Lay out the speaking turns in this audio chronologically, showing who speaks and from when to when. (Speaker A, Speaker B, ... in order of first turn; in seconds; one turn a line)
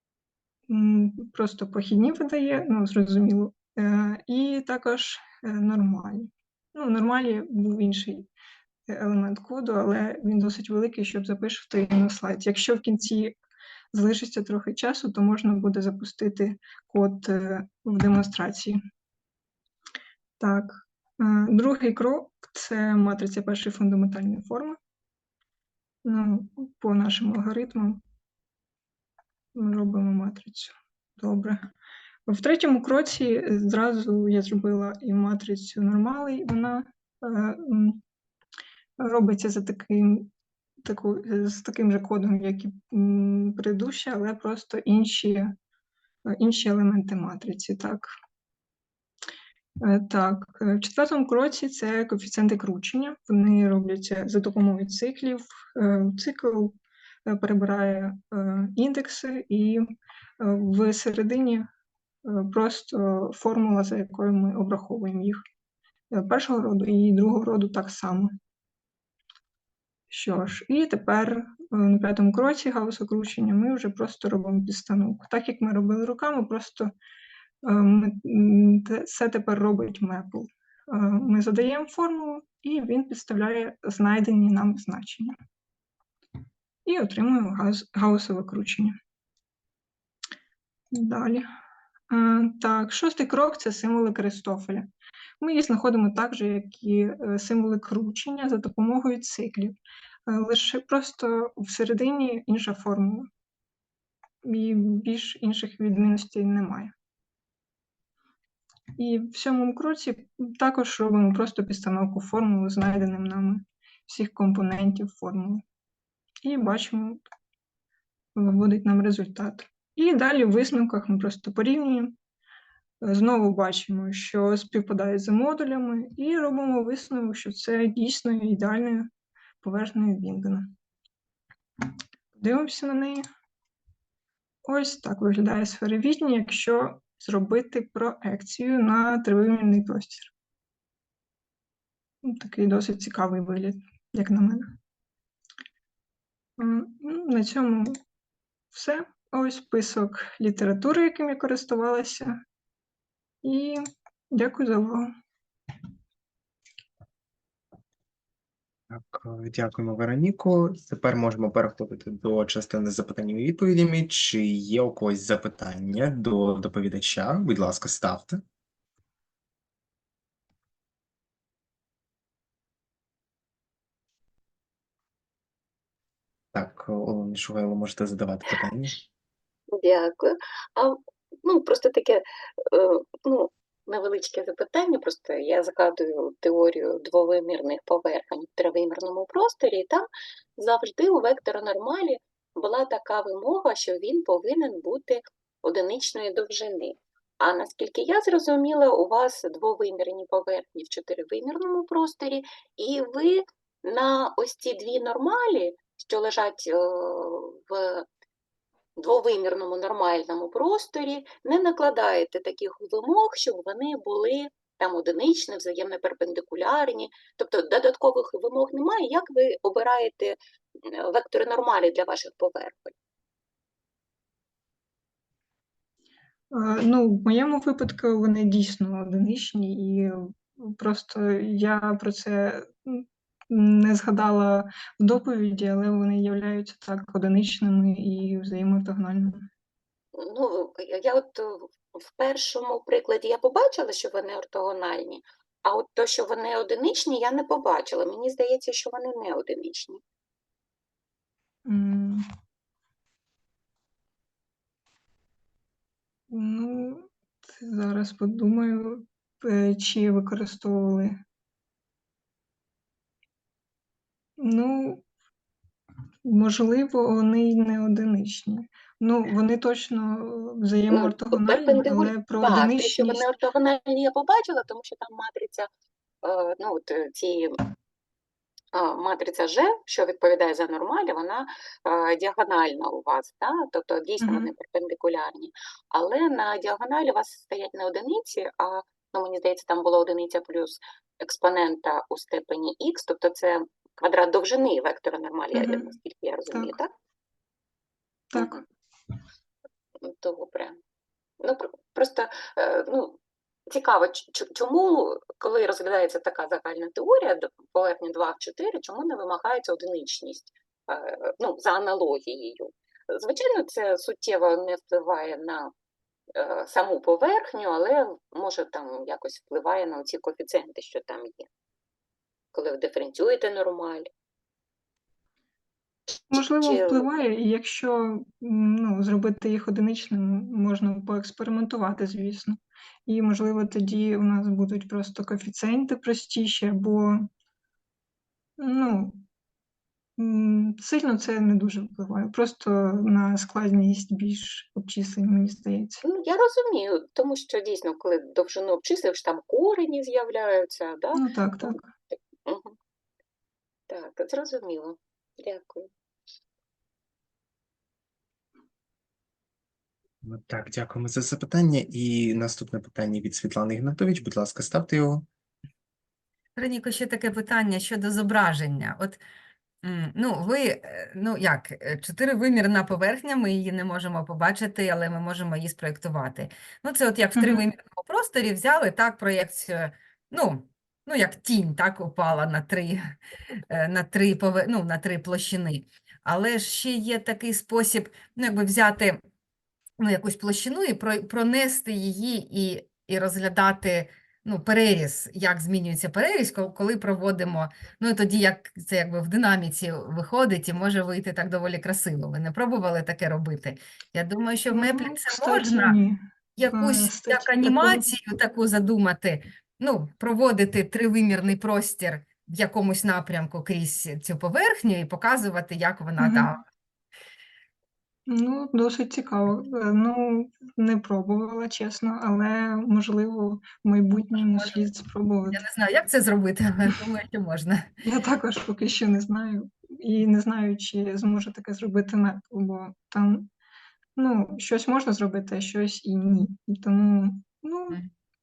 Speaker A: 0.7-8.3
Speaker A: 8.9-13.4
Speaker A: 13.9-18.8
Speaker A: 20.4-24.8
Speaker A: 26.1-28.0
Speaker A: 29.6-31.6
Speaker A: 32.3-38.0
Speaker A: 39.0-40.3
Speaker A: 40.8-45.5
Speaker A: 46.3-48.1
Speaker A: 49.8-59.9
Speaker A: 60.4-61.7
Speaker A: 62.3-65.4
Speaker A: 66.1-68.3
Speaker A: 70.1-76.9
Speaker A: 77.7-85.3
Speaker A: 86.8-89.0
Speaker A: 90.9-91.5
Speaker A: 92.1-94.9
Speaker A: 95.4-103.3
Speaker A: 104.4-106.9
Speaker A: 109.0-115.6
Speaker A: 116.4-117.2
Speaker A: 118.4-122.1
Speaker A: 123.0-129.1
Speaker A: 129.6-130.7
Speaker A: 132.3-133.2
Speaker A: 134.7-140.3
Speaker A: 142.2-144.7
Speaker A: 146.6-148.0
Speaker A: 148.7-152.4
Speaker A: 153.4-155.1
Speaker B: 158.9-168.4
Speaker B: 176.5-179.0
Speaker C: 179.7-208.1
Speaker C: 209.0-222.9
Speaker A: 226.5-239.5
Speaker C: 240.2-250.0
Speaker A: 251.7-252.2
Speaker A: 256.3-261.2
Speaker A: 264.4-265.0
Speaker A: 266.2-273.2
Speaker C: 270.9-275.7
Speaker C: 276.2-277.6
Speaker C: 278.7-296.9
Speaker A: 284.2-284.5
Speaker A: 295.5-295.9
Speaker A: 298.3-298.6
Speaker C: 298.4-298.6
Speaker C: 300.0-300.8
Speaker C: 301.4-315.7
Speaker C: 316.4-321.5
Speaker C: 322.5-324.1
Speaker C: 326.3-327.1
Speaker A: 326.3-337.3
Speaker A: 338.6-339.2
Speaker A: 340.2-346.0
Speaker C: 346.0-352.8
Speaker A: 351.1-351.9
Speaker C: 353.9-355.9
Speaker B: 360.2-365.2
Speaker D: 366.6-369.2
Speaker D: 369.8-383.2
Speaker A: 377.4-377.6
Speaker D: 383.7-389.2
Speaker D: 390.0-406.0
Speaker A: 404.7-408.0
Speaker D: 406.6-416.6
Speaker A: 416.2-416.5
Speaker A: 418.3-425.6
Speaker D: 425.5-427.9
Speaker A: 428.0-433.5
Speaker A: 434.2-438.0